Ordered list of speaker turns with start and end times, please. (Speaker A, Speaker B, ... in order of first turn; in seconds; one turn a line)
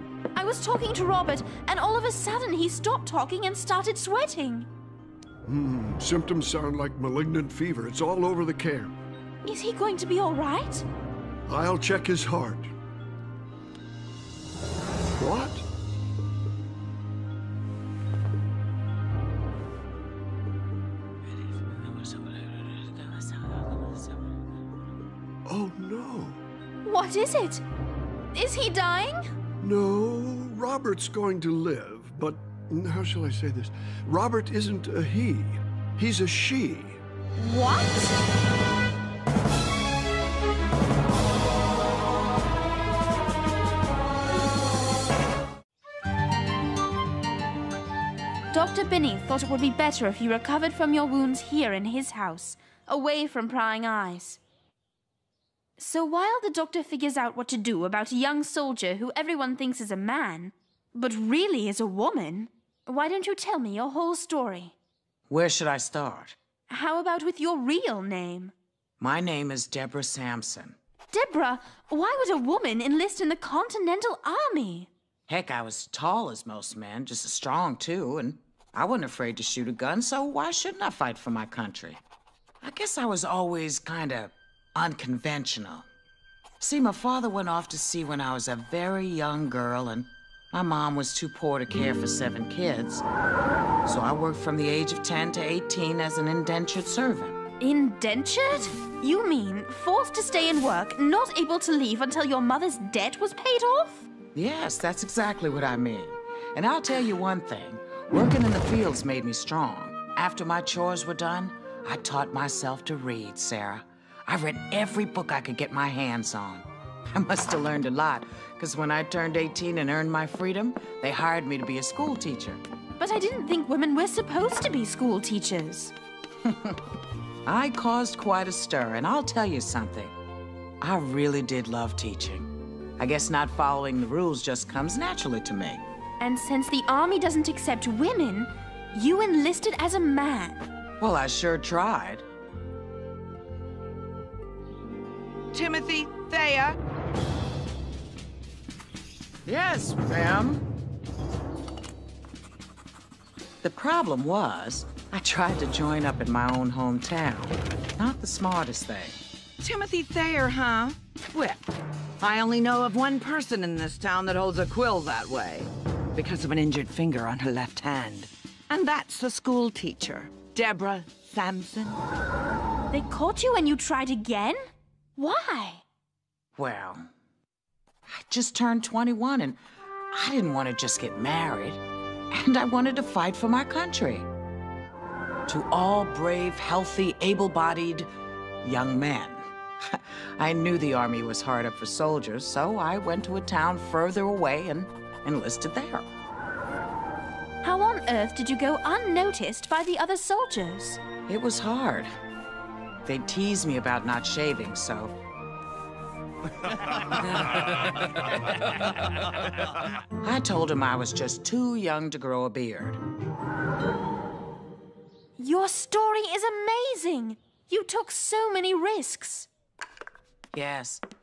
Speaker A: 0.3-4.7
Speaker B: 5.5-8.9
Speaker A: 9.4-10.8
Speaker B: 11.5-12.7
Speaker B: 15.2-15.6
Speaker C: 21.6-23.7
Speaker B: 25.4-26.4
Speaker A: 26.8-27.6
Speaker A: 28.3-29.3
Speaker B: 29.6-37.0
Speaker A: 37.4-38.2
Speaker A: 48.5-54.4
Speaker A: 55.8-64.7
Speaker C: 65.3-66.3
Speaker A: 66.7-68.5
Speaker C: 69.0-70.8
Speaker A: 71.1-74.9
Speaker C: 75.3-82.0
Speaker C: 82.6-85.8
Speaker C: 86.6-93.0
Speaker C: 93.8-97.4
Speaker A: 97.6-104.1
Speaker C: 104.3-122.6
Speaker A: 123.0-125.9
Speaker C: 126.4-126.8
Speaker C: 127.5-130.1
Speaker C: 130.8-135.8
Speaker A: 136.2-140.6
Speaker C: 141.0-142.2
Speaker D: 145.5-146.8
Speaker C: 149.4-150.6
Speaker C: 153.6-159.2
Speaker D: 159.6-161.6
Speaker D: 162.2-172.0
Speaker A: 172.9-174.6
Speaker A: 175.2-175.8
Speaker C: 176.6-177.1
Speaker C: 178.1-179.6
Speaker C: 180.1-184.3
Speaker C: 185.5-188.1
Speaker C: 188.6-196.1
Speaker A: 197.6-201.0
Speaker C: 201.3-202.1
Speaker C: 203.0-205.1
Speaker C: 210.2-213.0
Speaker A: 215.4-219.5
Speaker C: 220.5-221.0